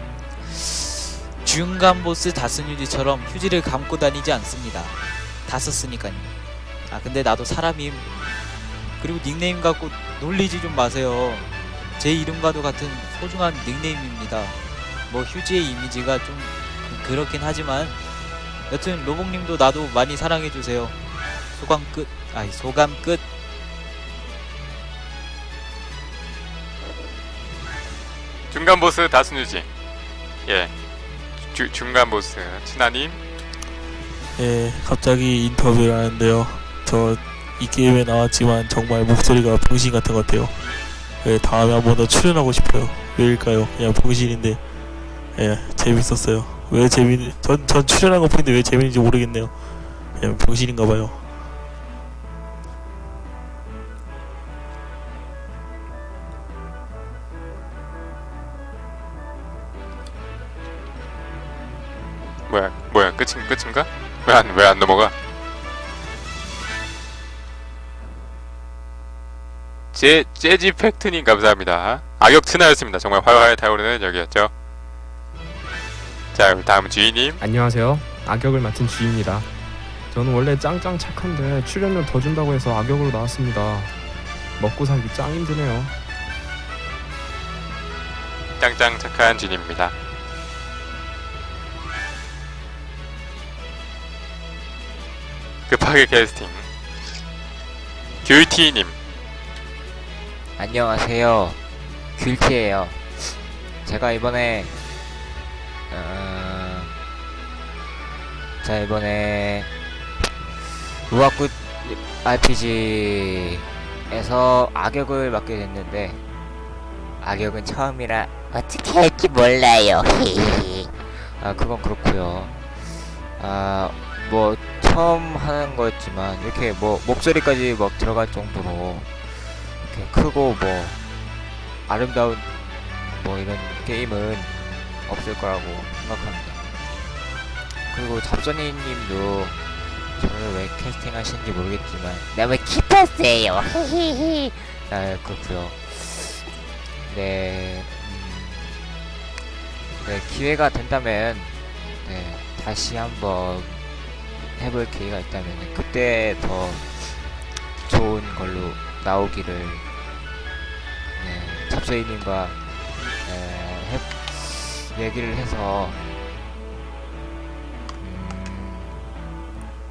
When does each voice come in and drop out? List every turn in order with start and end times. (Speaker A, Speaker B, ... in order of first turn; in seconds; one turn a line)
Speaker A: 0.5-4.9
Speaker A: 5.5-6.3
Speaker A: 6.9-8.1
Speaker A: 9.0-14.6
Speaker A: 15.1-18.0
Speaker A: 18.7-20.9
Speaker A: 21.6-23.2
Speaker B: 28.5-29.7
Speaker B: 30.5-30.7
Speaker B: 31.5-33.2
Speaker C: 34.4-40.5
Speaker C: 41.2-44.6
Speaker C: 45.4-49.6
Speaker C: 50.1-51.3
Speaker B: 62.5-65.1
Speaker B: 69.9-74.5
Speaker B: 76.3-77.4
Speaker D: 77.4-79.5
Speaker D: 80.1-83.9
Speaker D: 84.6-85.9
Speaker B: 88.6-90.0
Speaker B: 95.7-96.7
Speaker B: 98.2-99.0
Speaker E: 100.6-101.6
Speaker E: 102.2-104.8
Speaker E: 105.9-106.9
Speaker E: 108.6-109.7
Speaker E: 111.1-116.2
Speaker E: 117.2-122.7
Speaker E: 123.4-131.0
Speaker E: 131.9-132.5
Speaker E: 133.1-134.5
Speaker E: 135.1-136.6
Speaker E: 137.9-139.6
Speaker E: 140.2-146.4
Speaker E: 147.1-148.8
Speaker E: 150.0-153.9
Speaker E: 154.5-157.2
Speaker E: 157.8-159.8
Speaker E: 161.2-162.6
Speaker E: 163.2-166.1
Speaker E: 168.0-169.1